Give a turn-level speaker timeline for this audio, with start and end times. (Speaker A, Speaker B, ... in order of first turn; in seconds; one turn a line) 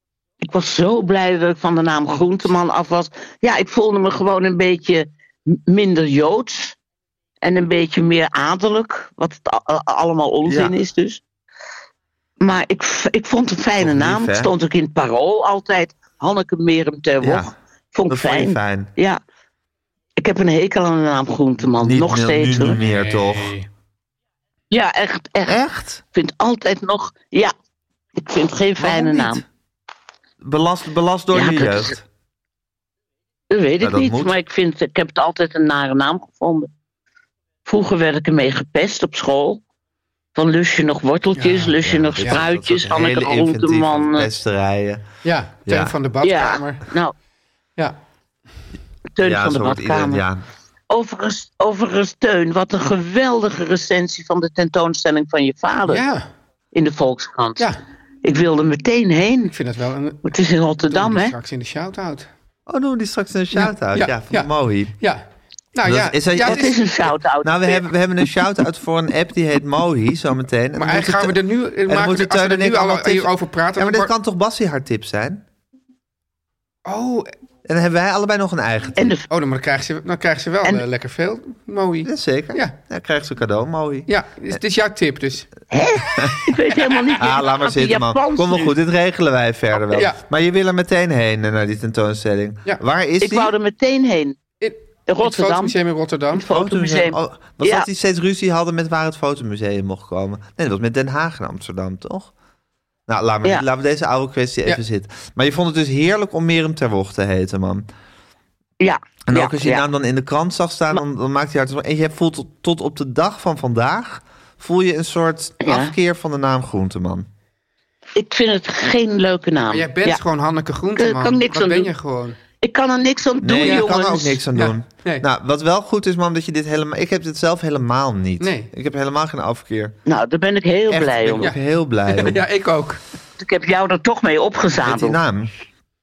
Speaker A: 0.4-6.8
Speaker A: 7.4-11.2
Speaker B: 10.4-10.7
Speaker A: 12.4-19.2
Speaker B: 13.8-14.5
Speaker B: 17.2-17.5
Speaker B: 18.1-18.9
Speaker A: 20.2-22.8
Speaker B: 21.7-23.5
Speaker C: 22.6-23.7
Speaker A: 24.7-27.5
Speaker B: 25.5-26.0
Speaker A: 28.1-29.4
Speaker B: 28.8-29.4
Speaker B: 30.4-32.0
Speaker A: 31.3-31.9
Speaker A: 33.5-36.7
Speaker B: 33.8-34.3
Speaker A: 37.6-39.6
Speaker A: 40.3-44.3
Speaker C: 41.3-42.4
Speaker B: 41.8-45.0
Speaker C: 45.2-46.8
Speaker B: 45.6-45.9
Speaker A: 46.2-47.1
Speaker A: 49.1-50.2
Speaker B: 49.2-50.4
Speaker A: 50.9-56.0
Speaker C: 55.9-56.2
Speaker A: 56.7-57.7
Speaker A: 58.2-59.5
Speaker C: 59.5-62.3
Speaker A: 60.2-61.3
Speaker B: 62.7-64.9
Speaker C: 63.5-66.7
Speaker B: 65.8-66.8
Speaker A: 66.4-67.8
Speaker B: 67.4-75.4
Speaker C: 70.8-74.1
Speaker C: 76.8-77.3
Speaker B: 77.7-79.1
Speaker A: 79.0-79.2
Speaker C: 79.3-82.8
Speaker B: 82.0-84.1
Speaker C: 84.1-85.5
Speaker A: 85.7-88.7
Speaker B: 86.2-86.5
Speaker C: 86.2-87.2
Speaker B: 87.2-93.5
Speaker C: 89.8-90.2
Speaker A: 93.2-94.4
Speaker C: 94.6-96.5
Speaker A: 95.1-95.7
Speaker A: 96.3-97.9
Speaker B: 96.5-102.3
Speaker B: 103.1-107.8
Speaker A: 108.8-109.8
Speaker B: 109.3-117.3
Speaker A: 115.6-115.9
Speaker A: 118.2-120.2
Speaker C: 119.7-122.4
Speaker A: 121.0-121.9
Speaker A: 122.6-124.4
Speaker B: 123.4-129.9
Speaker C: 123.6-123.9
Speaker C: 124.5-125.2
Speaker C: 128.4-128.7
Speaker A: 130.1-131.5
Speaker B: 130.9-132.4
Speaker C: 132.1-133.0
Speaker A: 133.4-135.2
Speaker B: 134.8-135.5